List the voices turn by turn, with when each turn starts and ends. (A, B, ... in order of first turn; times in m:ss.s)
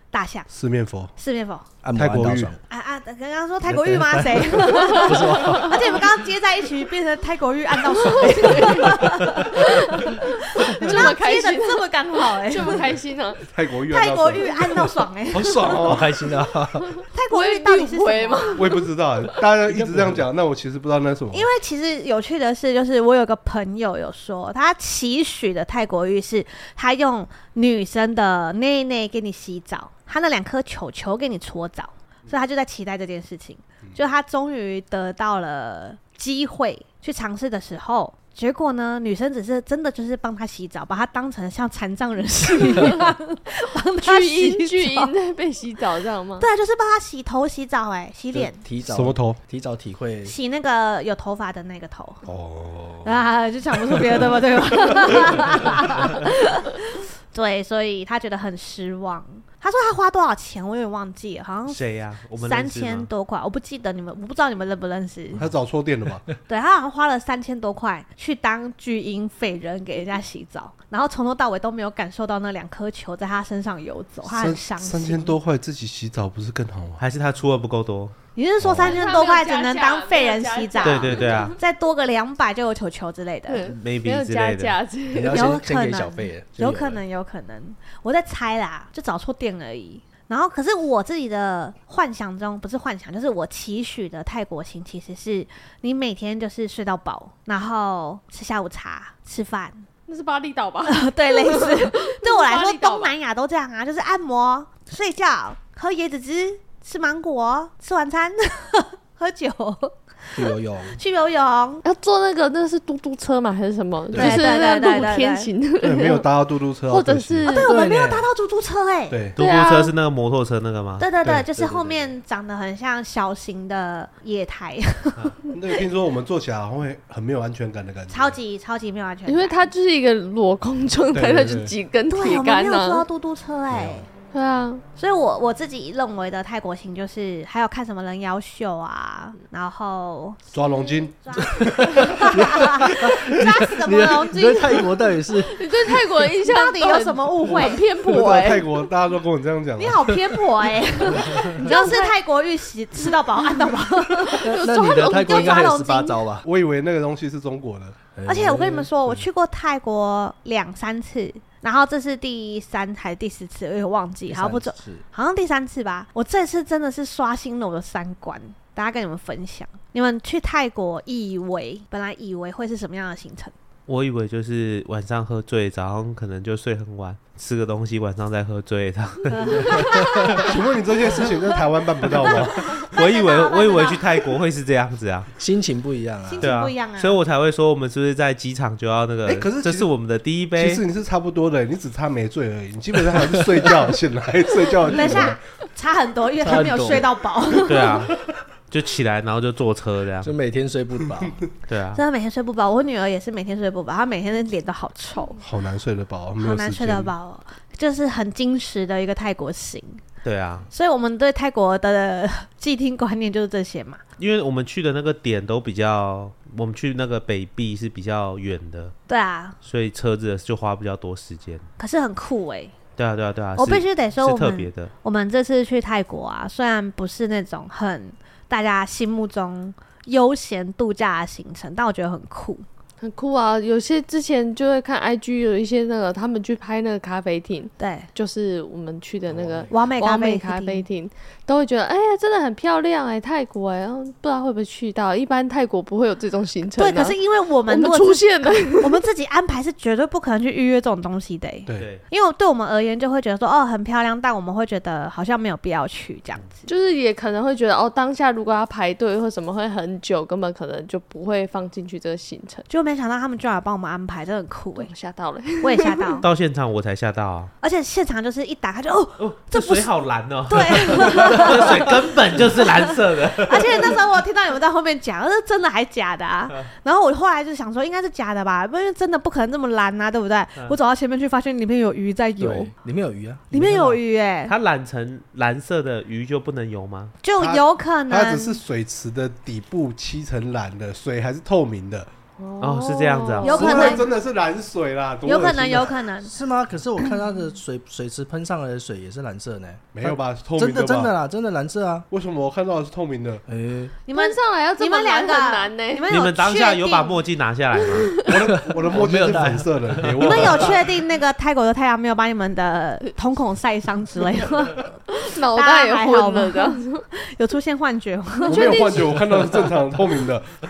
0:00.1-0:00.5 A
0:00.5-0:01.1 B
0:01.2-0:01.7 A
0:01.8-0:02.6 C
0:01.9-0:02.5 B
0:02.7-0:12.9 A
0:03.6-0:06.0 C
0:04.9-0:05.6 D
0:08.0-0:13.4 D
0:13.5-0:14.7 B
0:13.9-0:16.0 A
0:15.3-0:16.4 B
0:15.7-0:16.9 C
0:17.1-0:18.7 A
0:17.3-0:18.9 D
0:18.6-0:21.5 B
0:19.6-0:20.2 C
0:21.3-0:45.1 A
0:42.5-0:43.1 D
0:44.0-0:46.5 D
0:46.4-0:48.6 A
0:48.3-0:50.3 C
0:48.8-0:49.4 B
0:50.2-0:52.2 A
0:52.2-0:53.2 B
0:53.0-1:01.8 A
0:55.1-0:55.4 B
1:01.7-1:03.1 E
1:02.4-1:05.4 A
1:05.3-1:06.2 B
1:06.5-1:15.4 A
1:14.3-1:17.0 B
1:17.0-1:18.1 E
1:18.4-1:23.7 A
1:18.6-1:19.0 B
1:18.8-1:21.6 D
1:20.8-1:21.6 E
1:23.5-1:25.5 D
1:23.7-1:24.8 E
1:25.1-1:27.0 C
1:25.3-1:39.9 A
1:40.1-1:43.1 D
1:40.8-1:51.8 A
1:50.3-1:51.0 C
1:51.8-1:56.3 D
1:54.1-1:54.5 C
1:54.1-1:55.5 A
1:55.8-1:57.6 B
1:56.9-1:57.7 D
1:57.5-1:59.2 A
1:57.5-1:58.3 C
1:59.1-1:59.3 B
1:59.4-2:01.1 E
1:59.4-1:59.9 D
2:01.0-2:05.3 A
2:01.2-2:02.1 C
2:05.5-2:08.4 B
2:08.1-2:09.7 A
2:09.2-2:13.0 D
2:11.1-2:11.7 B
2:12.1-2:14.1 A
2:13.7-2:14.0 B
2:14.3-2:14.8 D
2:15.0-2:25.0 A
2:20.5-2:23.2 B
2:21.5-2:25.8 C
2:25.4-2:28.8 D
2:26.4-2:27.8 A
2:28.0-2:30.2 B
2:29.8-2:36.2 A
2:31.2-2:31.7 C
2:31.6-2:32.1 D
2:34.2-2:35.6 D
2:34.4-2:36.5 C
2:36.4-2:38.0 B
2:38.1-2:39.2 C
2:38.2-2:53.5 A
2:44.3-2:45.0 C
2:53.9-3:00.4 E
2:59.3-3:00.5 A
3:00.3-3:02.8 B
3:02.2-3:05.3 E
3:02.4-3:04.2 A
3:05.4-3:06.5 C
3:06.2-3:07.2 A
3:06.4-3:10.8 E
3:09.2-3:09.9 B
3:10.5-3:15.4 B
3:13.1-3:13.8 C
3:14.9-3:18.1 A
3:16.4-3:17.6 C
3:17.6-3:18.1 E
3:18.7-3:20.3 E
3:20.2-3:21.4 C
3:21.7-3:22.0 E
3:21.9-3:25.4 A
3:25.4-3:27.1 B
3:26.4-3:30.0 A
3:30.2-3:30.7 E
3:30.7-3:34.0 A
3:34.2-3:38.9 E
3:39.1-3:39.6 A
3:39.6-3:41.6 E
3:41.8-3:42.8 A
3:43.0-3:44.9 E
3:43.6-3:52.6 A
3:53.0-4:09.0 D
3:57.8-3:58.1 A
3:59.3-3:59.7 B
3:59.7-4:00.9 A
4:06.8-4:16.6 A
4:11.8-4:12.0 E
4:16.6-4:22.7 D
4:22.7-4:24.9 A
4:24.8-4:26.2 D
4:25.6-4:26.3 A
4:26.2-4:27.5 E
4:27.6-4:29.9 A
4:29.2-4:34.0 E
4:30.5-4:42.7 A
4:42.4-4:44.0 C
4:43.5-4:44.5 A
4:44.4-4:47.2 E
4:47.2-4:48.6 A
4:47.4-4:52.1 B
4:52.4-4:54.1 D
4:52.6-4:53.8 E
4:53.4-4:54.1 A
4:53.5-4:56.0 B
4:55.2-4:56.3 A
4:56.2-5:02.1 C
4:59.9-5:01.1 B
5:02.1-5:03.4 B
5:03.5-5:03.9 C
5:04.0-5:07.2 A
5:04.1-5:06.1 D
5:06.1-5:08.2 E
5:07.9-5:08.3 D
5:08.2-5:10.8 B
5:08.4-5:10.7 C
5:10.2-5:14.9 A
5:15.1-5:17.1 D
5:15.5-5:18.8 A
5:18.4-5:19.5 D
5:18.4-5:20.6 B